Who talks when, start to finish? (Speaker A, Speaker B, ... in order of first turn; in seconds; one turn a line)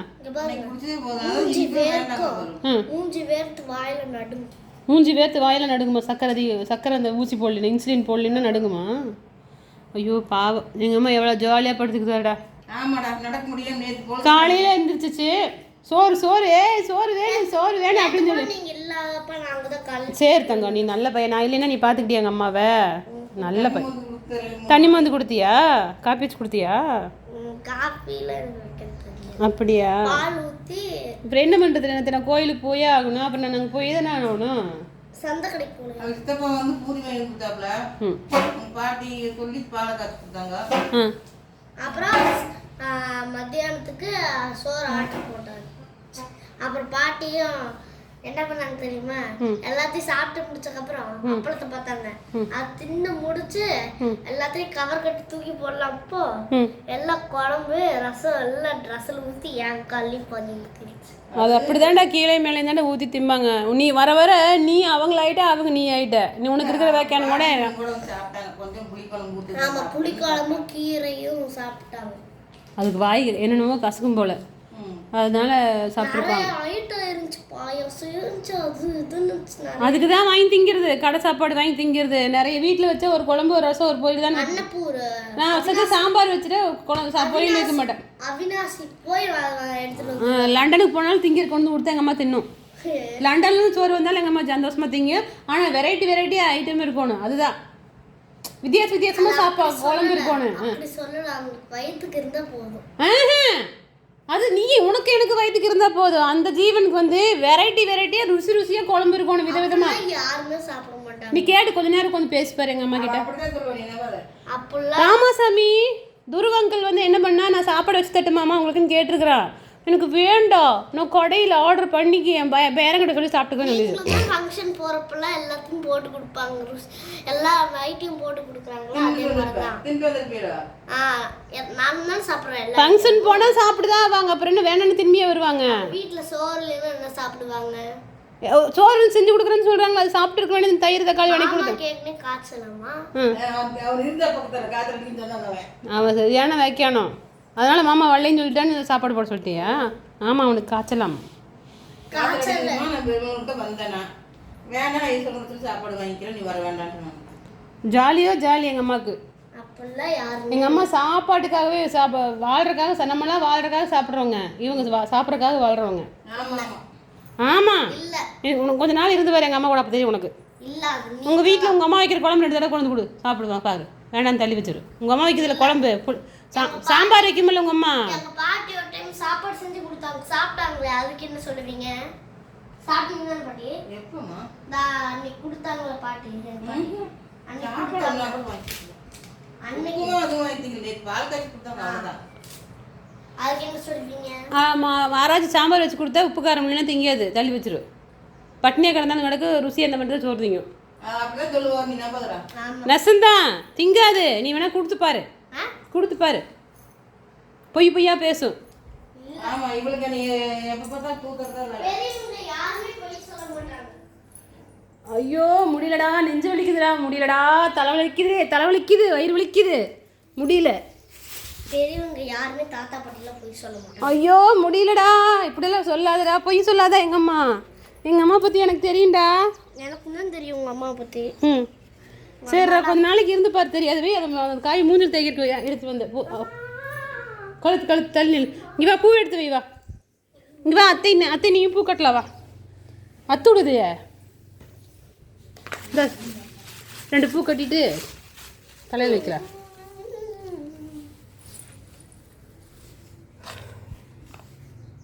Speaker A: 0.2-4.5
Speaker B: 0.4-2.6
Speaker C: 4.9-8.9
Speaker C: 9.9-12.3
Speaker B: 12.7-14.7
Speaker C: 14.2-15.3
Speaker C: 15.9-18.5
Speaker A: 17.2-20.8
Speaker C: 20.1-22.8
Speaker C: 23.4-23.9
Speaker B: 23.5-25.1
Speaker C: 24.7-26.8
Speaker A: 27.3-29.4
Speaker C: 29.4-30.2
Speaker A: 30.1-30.9
Speaker C: 31.3-34.5
Speaker A: 35.2-36.1
Speaker B: 36.0-37.8
Speaker B: 38.3-40.6
Speaker A: 41.8-45.8
Speaker A: 46.6-47.7
Speaker A: 48.2-53.7
Speaker A: 54.2-56.3
Speaker A: 56.9-61.2
Speaker B: 61.3-62.0
Speaker C: 61.4-67.7
Speaker B: 66.6-70.7
Speaker A: 69.5-72.2
Speaker C: 72.8-74.4
Speaker B: 74.7-75.0
Speaker C: 75.2-76.5
Speaker A: 76.0-80.1
Speaker C: 79.8-84.6
Speaker A: 84.3-86.0
Speaker C: 85.4-88.0
Speaker A: 87.2-90.7
Speaker C: 90.2-92.5
Speaker A: 92.8-93.2
Speaker C: 93.2-97.5
Speaker C: 98.6-100.7
Speaker A: 99.1-102.8
Speaker C: 103.0-103.6
Speaker C: 104.3-110.0
Speaker A: 109.5-111.5
Speaker C: 111.3-113.2
Speaker B: 112.9-114.2
Speaker A: 114.5-115.3
Speaker C: 115.0-115.8
Speaker C: 116.3-124.2
Speaker A: 123.6-129.8
Speaker B: 128.9-130.6
Speaker A: 130.9-133.6
Speaker C: 132.8-135.9
Speaker A: 135.7-137.9
Speaker C: 138.4-141.8
Speaker A: 141.3-143.0
Speaker B: 143.3-145.7
Speaker C: 145.9-151.2
Speaker A: 149.6-149.8
Speaker A: 152.1-152.9
Speaker B: 152.1-154.1
Speaker B: 154.7-157.3
Speaker C: 157.9-159.2
Speaker A: 159.6-160.9
Speaker C: 160.5-166.1
Speaker B: 166.3-166.8
Speaker A: 166.3-166.7
Speaker C: 167.4-167.9
Speaker A: 167.9-168.2
Speaker C: 168.4-170.3
Speaker A: 170.6-171.8
Speaker C: 171.2-178.2
Speaker A: 175.3-175.8
Speaker A: 176.5-177.3
Speaker A: 178.1-181.9
Speaker A: 182.8-183.7
Speaker B: 183.9-184.5
Speaker A: 184.7-186.9
Speaker B: 186.6-189.0
Speaker A: 187.5-188.4
Speaker A: 189.6-190.2
Speaker B: 189.7-192.2
Speaker A: 191.8-192.1
Speaker A: 193.4-194.4
Speaker C: 194.6-197.8
Speaker C: 198.6-200.7
Speaker B: 201.0-202.4
Speaker A: 202.6-202.9
Speaker C: 202.9-205.2
Speaker C: 205.9-206.4
Speaker C: 207.7-208.5
Speaker A: 209.2-209.6
Speaker B: 209.4-211.9
Speaker A: 211.8-214.0
Speaker C: 215.1-219.8
Speaker C: 220.4-220.8
Speaker A: 221.7-224.1
Speaker C: 224.0-227.4
Speaker C: 228.0-229.3
Speaker A: 229.8-231.3
Speaker C: 231.4-231.7
Speaker A: 232.4-233.0
Speaker C: 232.5-236.5
Speaker A: 236.8-237.2
Speaker C: 237.6-239.6
Speaker C: 240.6-242.3
Speaker C: 243.3-243.9
Speaker C: 245.9-246.2
Speaker C: 247.1-247.8
Speaker C: 248.9-249.4
Speaker A: 249.0-250.8